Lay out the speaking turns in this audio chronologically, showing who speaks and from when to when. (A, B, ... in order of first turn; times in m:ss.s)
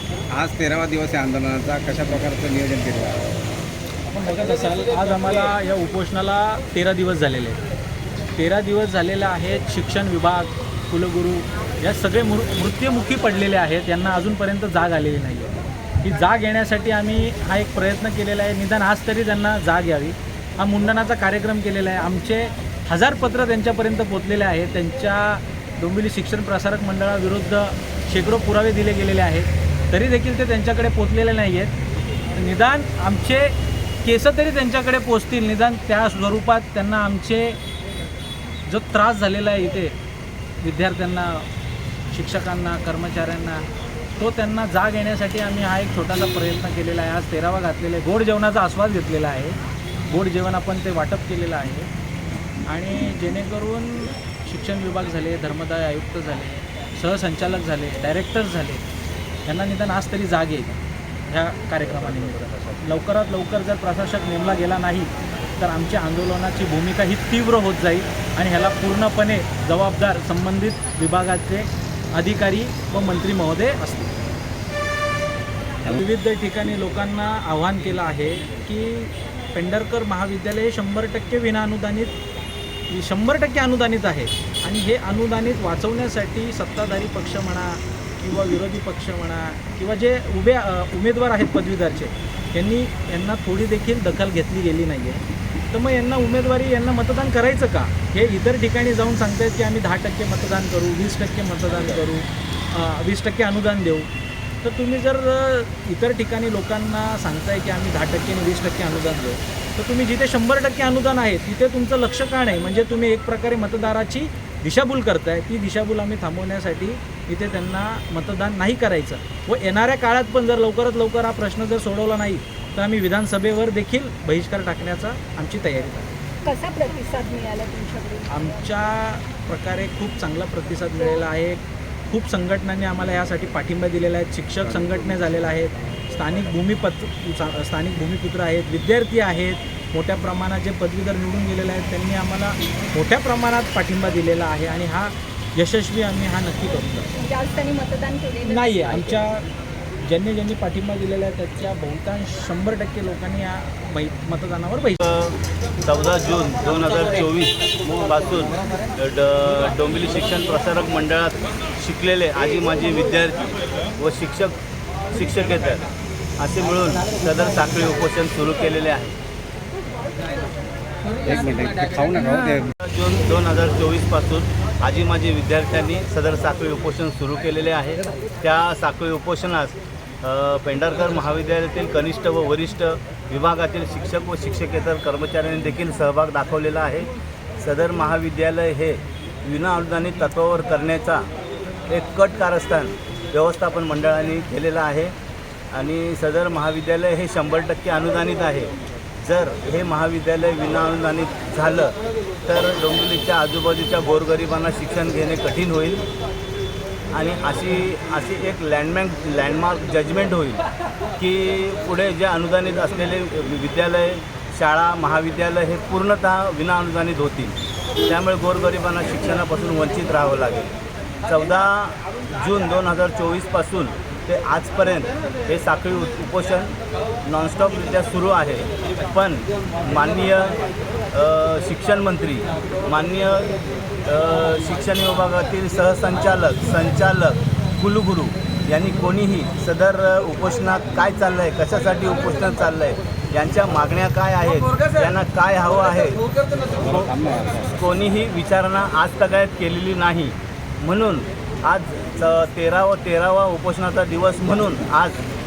0:00.3-0:03.2 A
0:04.1-0:07.6 B
0:08.4-0:31.7 B
0:32.3-0:37.6 B
0:38.6-0:40.0 B
0:40.6-0:41.5 B
0:42.1-0:43.6 B
0:44.2-0:49.6 B
0:50.1-0:51.9 B
0:52.7-0:58.8 B
0:59.4-1:00.8 B
1:01.3-1:14.1 B
1:15.9-1:22.1 B
1:22.9-1:44.1 B
1:44.6-2:06.1 B
2:06.4-2:08.4 C
2:08.3-2:27.1 B
2:27.2-2:29.2 C
2:28.4-2:29.4 B
2:30.0-2:35.0 B
2:35.0-2:44.6 D
2:45.1-2:45.8 D
2:46.4-2:49.2 D
2:51.2-2:52.7 A
2:52.8-3:11.3 D
3:11.9-3:15.1 D
3:15.7-3:21.9 D
3:22.5-3:26.0 D
3:27.1-3:30.6 D
3:31.2-3:40.7 D
3:41.2-3:46.7 D
3:47.2-3:50.6 D
3:51.1-3:53.5 D
3:54.0-4:06.2 D
4:06.8-4:07.8 A
4:07.8-4:15.2 D